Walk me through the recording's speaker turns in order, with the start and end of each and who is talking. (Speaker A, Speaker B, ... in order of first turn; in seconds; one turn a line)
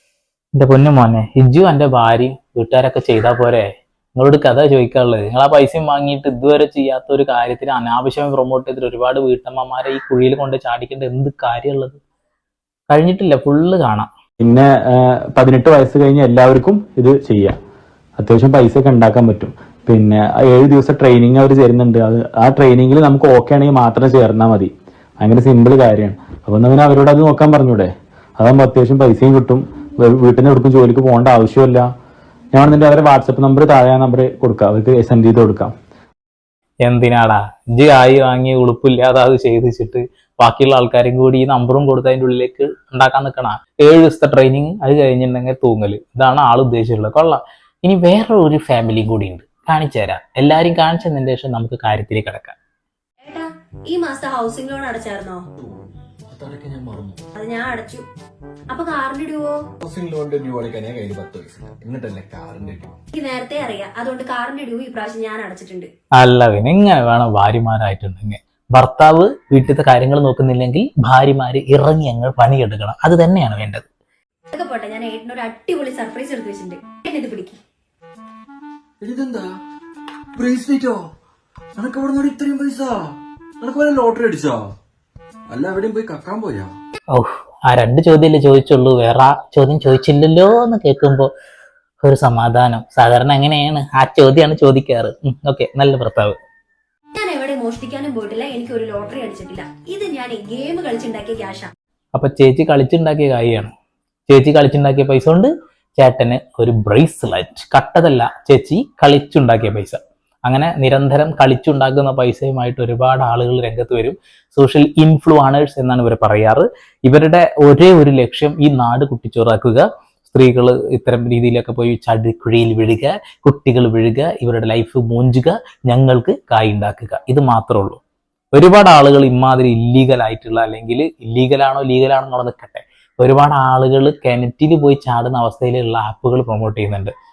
Speaker A: 0.6-12.0
Speaker A: 12.9-14.1
Speaker B: 14.4-17.5
Speaker B: 18.2-31.9
Speaker B: 32.5-35.7
Speaker A: 36.8-52.5
Speaker C: 53.2-55.4
Speaker D: 55.6-57.2
Speaker C: 57.4-58.0
Speaker C: 58.7-59.5
Speaker D: 59.8-63.0
Speaker C: 63.1-65.9
Speaker A: 66.2-73.9
Speaker C: 74.5-77.6
Speaker D: 79.0-79.5
Speaker D: 80.3-81.0
Speaker D: 81.8-84.7
Speaker D: 85.5-86.7
Speaker A: 87.1-91.3
Speaker A: 92.0-96.3
Speaker C: 97.2-101.7
Speaker A: 102.1-103.7
Speaker A: 104.3-128.0
Speaker A: 128.5-137.1